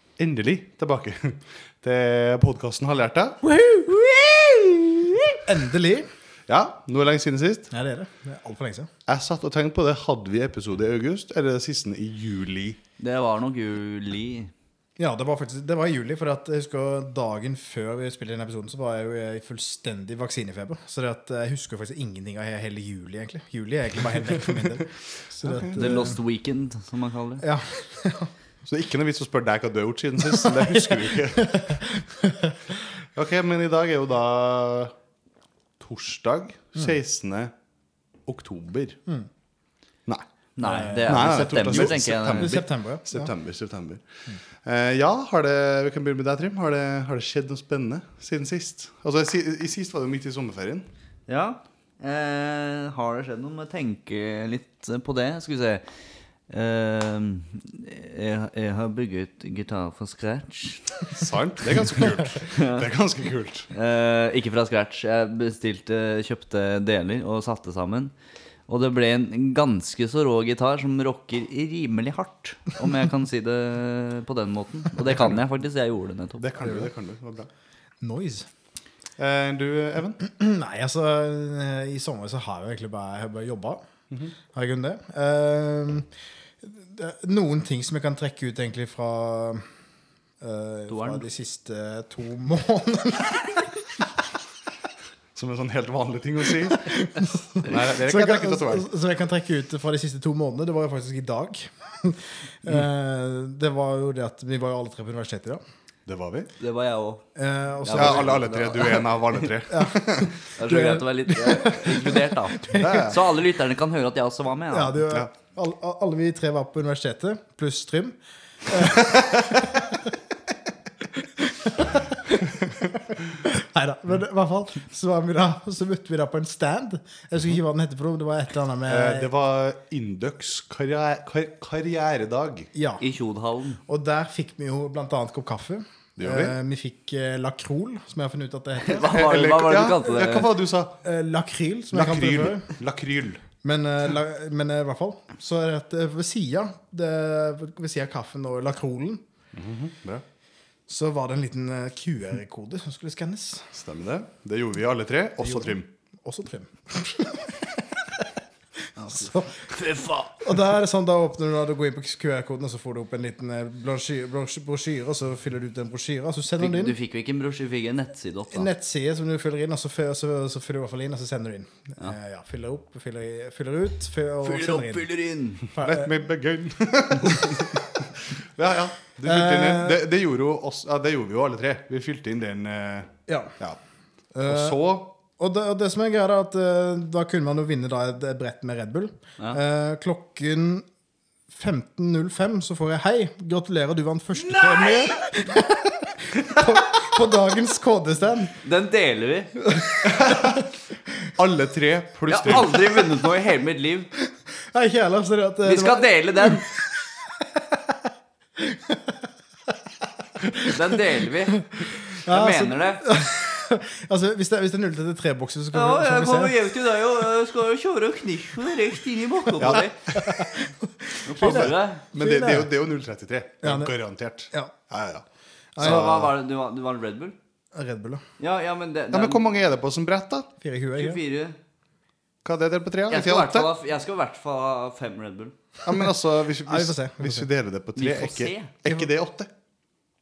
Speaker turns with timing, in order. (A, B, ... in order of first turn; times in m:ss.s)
0:00.2-0:03.4 A
0:03.5-0:03.8 B
0:03.9-0:04.9 C
0:05.4-0:06.1 B
0:06.5-0:07.7 A
0:07.7-0:08.9 B
0:09.1-0:12.8 A
0:13.0-0:14.5 C
0:15.0-0:26.2 B
0:25.4-0:26.1 A
0:25.8-0:27.4 C
0:27.4-0:28.3 B
0:28.6-0:32.0 A
0:30.2-0:32.6 B
0:33.1-0:34.9 A
0:35.8-0:37.5 A
0:38.3-0:39.0 A
0:40.6-0:42.5 C
0:40.6-0:43.3 B
0:41.0-0:44.0 A
0:44.6-0:50.8 A
0:51.3-0:55.8 C
0:56.5-1:00.9 C
1:01.1-1:03.7 A
1:02.5-1:02.8 C
1:03.7-1:08.1 C
1:08.7-1:16.6 C
1:16.4-1:17.5 A
1:16.6-1:16.9 B
1:18.0-1:18.5 B
1:19.2-1:20.2 A
1:20.2-1:23.8 B
1:24.5-1:26.1 B
1:26.6-1:29.6 B
1:30.4-1:33.7 B
1:30.9-1:31.2 C
1:35.3-1:36.9 A
1:36.6-1:45.6 B
1:37.6-1:38.9 A
1:46.1-1:46.5 A
1:46.6-1:47.2 C
1:47.4-1:48.4 B
1:47.8-1:49.4 C
1:47.9-1:50.4 A
1:49.7-1:53.1 B
1:50.6-1:55.0 C
1:52.8-1:53.2 A
1:54.7-2:00.1 B
2:01.1-2:09.3 B
2:08.8-2:12.7 A
2:12.7-2:13.0 B
2:13.0-2:13.8 C
2:13.9-2:19.5 B
2:16.2-2:16.5 A
2:18.8-2:20.5 C
2:19.0-2:21.0 A
2:21.0-2:22.7 B
2:21.9-2:23.4 A
2:23.6-2:29.2 B
2:29.5-2:30.2 A
2:30.9-2:33.7 B
2:33.7-2:35.9 A
2:35.4-2:37.6 B
2:39.0-2:40.4 C
2:39.1-2:39.5 B
2:40.4-2:47.0 B
2:46.6-2:48.7 C
2:48.5-2:55.1 B
2:54.4-2:55.6 C
2:55.7-2:56.1 B
2:55.8-3:03.8 A
2:59.2-3:00.0 B
3:03.3-3:03.5 B
3:04.3-3:10.8 B
3:04.4-3:05.1 A
3:11.5-3:18.6 B
3:14.4-3:15.6 C
3:18.6-3:19.5 C
3:19.6-3:20.6 B
3:20.0-3:20.6 A
3:21.4-3:22.8 A
3:22.3-3:24.1 C
3:24.7-3:28.0 B
3:25.6-3:26.6 C
3:28.6-3:29.2 B
3:30.4-3:30.8 B
3:30.7-3:31.6 C
3:31.7-3:36.5 B
3:32.2-3:33.0 C
3:35.7-3:40.0 C
3:39.6-3:40.2 A
3:40.1-3:42.7 B
3:41.2-3:42.0 C
3:41.4-3:45.2 A
3:43.6-3:43.9 B
3:45.8-3:46.0 B
3:45.8-3:46.3 A
3:45.8-3:47.3 C
3:47.7-3:48.2 B
3:48.4-3:49.4 C
3:49.1-3:50.5 A
3:50.6-3:51.2 B
3:51.0-3:51.6 C
3:52.4-3:53.7 A
3:53.1-3:55.5 C
3:55.8-3:59.5 A
3:56.6-3:57.5 B
3:58.0-3:58.7 C